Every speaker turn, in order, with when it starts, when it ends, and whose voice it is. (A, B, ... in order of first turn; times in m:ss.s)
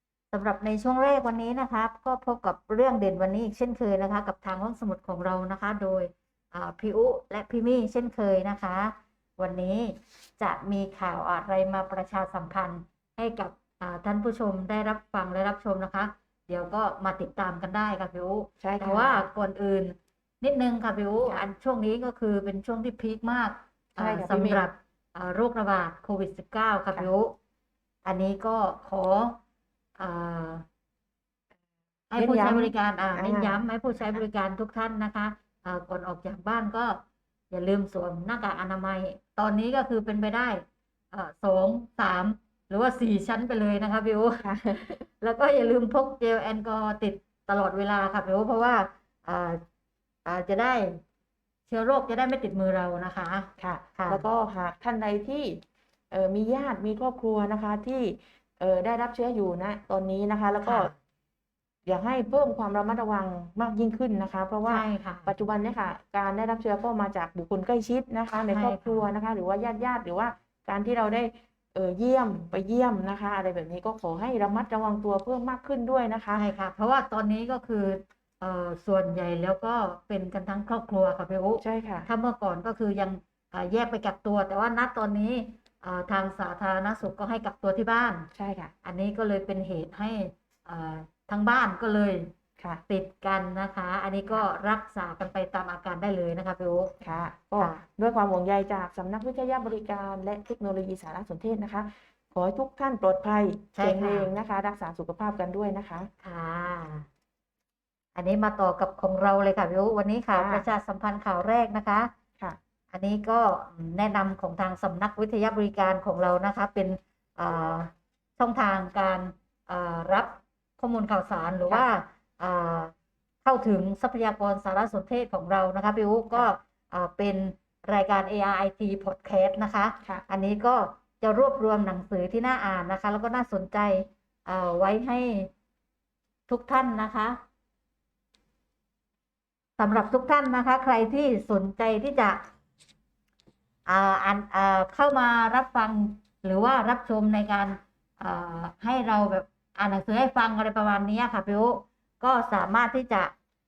0:00.3-0:27.4 A
0:18.6-0:19.2 B
0:24.0-0:24.6 B
0:28.0-0:29.4 A
0:30.0-0:30.6 A
0:32.1-0:49.6 A
0:32.2-0:34.2 B
0:44.4-0:45.0 B
0:50.3-0:51.0 A
0:51.7-0:54.2 A
0:53.6-1:00.9 B
1:00.7-1:00.9 A
1:01.9-1:16.4 B
1:04.7-1:05.3 A
1:08.5-1:09.0 A
1:16.4-1:28.3 A
1:21.6-1:22.1 B
1:28.4-1:28.7 B
1:28.8-1:32.3 A
1:32.9-1:37.0 A
1:37.0-1:46.1 B
1:37.6-1:37.8 A
1:43.8-1:44.3 A
1:46.2-1:47.1 A
1:48.2-1:52.1 A
1:50.3-1:50.6 B
1:52.9-2:02.9 A
2:03.4-2:15.5 A
2:16.5-2:17.4 A
2:19.8-2:22.4 A
2:23.9-2:33.3 A